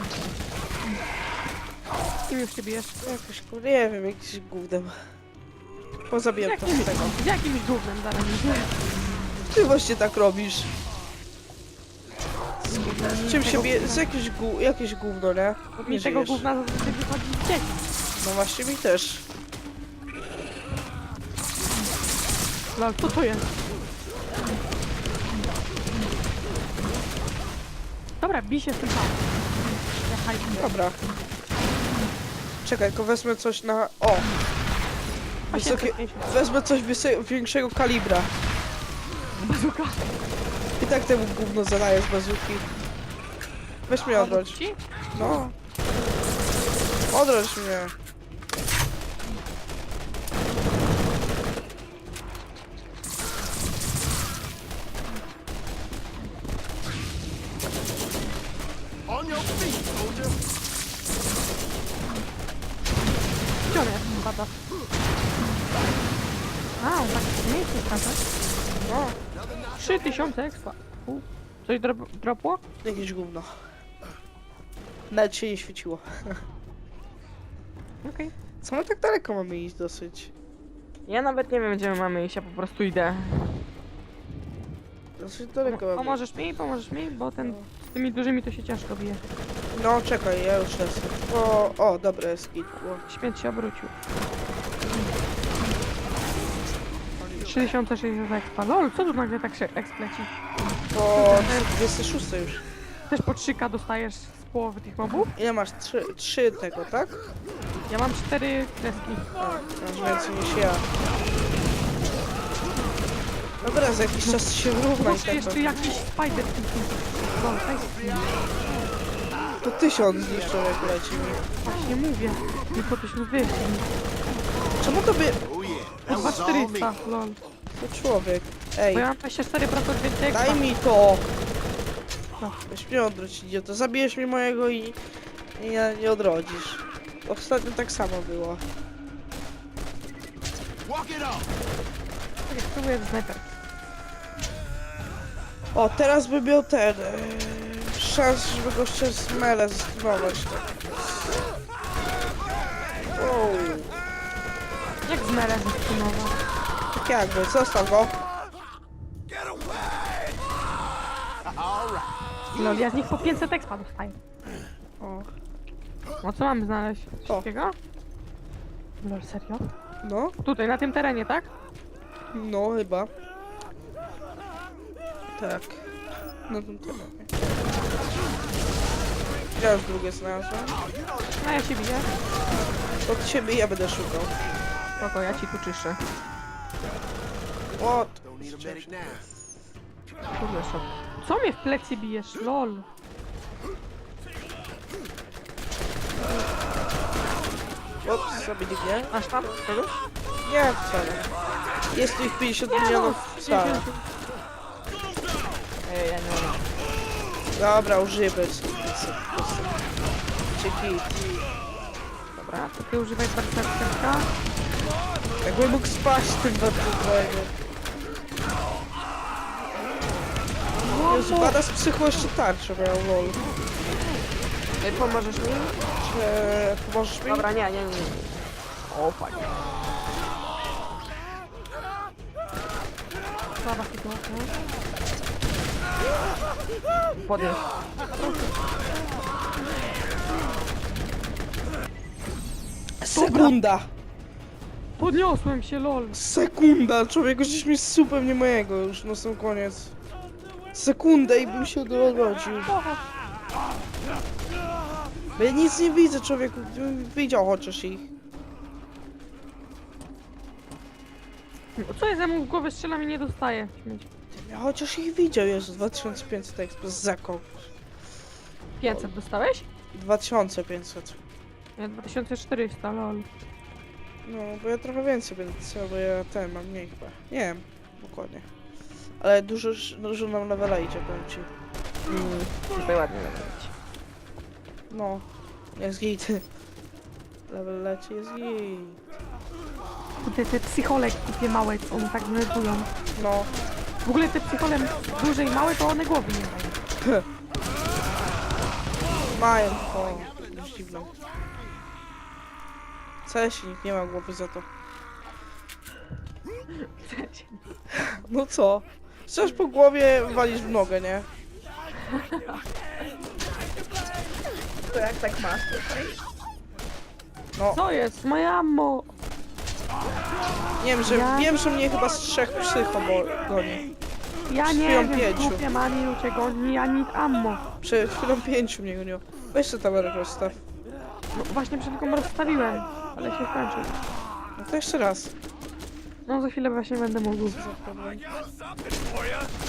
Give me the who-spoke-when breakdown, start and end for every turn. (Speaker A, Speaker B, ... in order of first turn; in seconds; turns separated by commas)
Speaker A: 2.3-3.0, Speaker B: 3.0-5.0, Speaker B: 6.1-7.2, Speaker A: 6.4-8.7, Speaker B: 9.5-10.7, Speaker B: 12.7-16.4, Speaker A: 12.7-14.1, Speaker A: 15.8-17.9, Speaker B: 18.2-19.3, Speaker A: 22.8-23.5, Speaker A: 28.2-29.3, Speaker A: 29.9-30.8, Speaker B: 30.6-31.0, Speaker B: 32.6-34.3, Speaker B: 35.5-38.3, Speaker A: 35.5-36.3, Speaker A: 39.3-40.1, Speaker B: 40.8-42.7, Speaker B: 43.9-44.6, Speaker A: 44.1-45.4, Speaker B: 45.1-45.5, Speaker B: 47.1-47.9, Speaker C: 59.1-60.3, Speaker A: 63.7-64.5, Speaker A: 66.8-68.2, Speaker B: 68.8-69.2, Speaker C: 69.3-70.3, Speaker A: 69.8-72.6, Speaker B: 72.8-73.5, Speaker B: 75.1-76.4, Speaker A: 78.0-78.3, Speaker B: 78.6-80.3, Speaker A: 81.1-83.6, Speaker B: 85.2-86.2, Speaker A: 85.7-89.2, Speaker B: 87.4-87.7, Speaker B: 89.7-93.0, Speaker A: 93.1-93.9, Speaker B: 97.2-97.7, Speaker A: 97.4-100.3, Speaker B: 100.9-102.7, Speaker A: 101.2-101.7, Speaker A: 103.1-105.3, Speaker B: 105.3-107.2, Speaker A: 107.9-109.3, Speaker B: 109.4-110.9, Speaker B: 113.6-116.0, Speaker A: 115.0-118.4, Speaker B: 119.6-121.4, Speaker A: 121.6-123.9, Speaker B: 124.8-125.4, Speaker C: 125.4-126.9, Speaker A: 126.1-127.4, Speaker B: 127.8-129.1, Speaker A: 128.9-130.6, Speaker B: 130.3-131.3, Speaker B: 132.7-135.0, Speaker B: 135.6-138.7, Speaker C: 140.8-141.5, Speaker A: 142.5-143.4, Speaker B: 145.7-151.4, Speaker B: 153.2-153.9, Speaker A: 155.1-156.4, Speaker B: 156.9-158.2, Speaker C: 159.4-160.3, Speaker C: 161.4-162.1, Speaker A: 162.5-164.2, Speaker B: 165.0-165.3, Speaker A: 166.2-167.8, Speaker A: 169.0-169.7, Speaker B: 170.0-170.4, Speaker A: 170.4-171.5, Speaker B: 172.3-173.1, Speaker B: 175.3-175.9, Speaker B: 176.5-177.6, Speaker B: 179.6-180.8, Speaker C: 180.8-181.4, Speaker A: 181.4-182.1, Speaker B: 183.0-184.3, Speaker A: 185.0-186.0, Speaker B: 187.8-189.2, Speaker C: 188.2-189.2, Speaker A: 190.3-192.8, Speaker B: 198.0-199.6, Speaker A: 199.1-199.9, Speaker B: 200.4-201.3, Speaker B: 201.9-203.8, Speaker A: 202.7-204.1, Speaker A: 205.8-206.6, Speaker B: 207.6-209.8, Speaker B: 210.5-211.1, Speaker A: 212.3-214.3, Speaker B: 215.4-217.5, Speaker A: 220.8-221.6, Speaker B: 221.1-223.5, Speaker A: 224.8-225.8, Speaker B: 226.0-227.5, Speaker A: 227.3-228.3, Speaker A: 228.9-229.5, Speaker A: 233.6-234.5, Speaker A: 237.2-237.6, Speaker B: 243.0-243.9, Speaker A: 243.1-243.6, Speaker A: 245.0-246.2, Speaker B: 246.1-249.9, Speaker B: 250.7-252.8, Speaker A: 252.7-253.0, Speaker B: 255.3-258.1, Speaker A: 261.8-264.1, Speaker B: 264.3-267.7, Speaker A: 268.8-269.7, Speaker B: 268.8-269.1, Speaker B: 269.9-271.2, Speaker A: 271.8-273.3, Speaker B: 274.2-278.5, Speaker B: 279.2-281.5, Speaker A: 282.1-283.7, Speaker B: 282.1-282.4, Speaker B: 284.9-286.4, Speaker B: 287.5-289.1, Speaker A: 290.2-292.9, Speaker B: 293.2-293.5, Speaker A: 294.0-296.8, Speaker B: 299.3-301.1, Speaker B: 303.2-304.7, Speaker A: 306.7-307.6, Speaker B: 307.9-311.3, Speaker A: 312.1-312.6, Speaker A: 314.9-316.2, Speaker A: 317.7-319.1, Speaker B: 320.8-323.9, Speaker A: 321.1-321.5, Speaker A: 324.5-327.6, Speaker B: 324.6-325.6, Speaker B: 327.8-330.6, Speaker A: 331.3-334.0, Speaker B: 334.6-335.3, Speaker A: 336.3-337.6, Speaker B: 337.5-338.2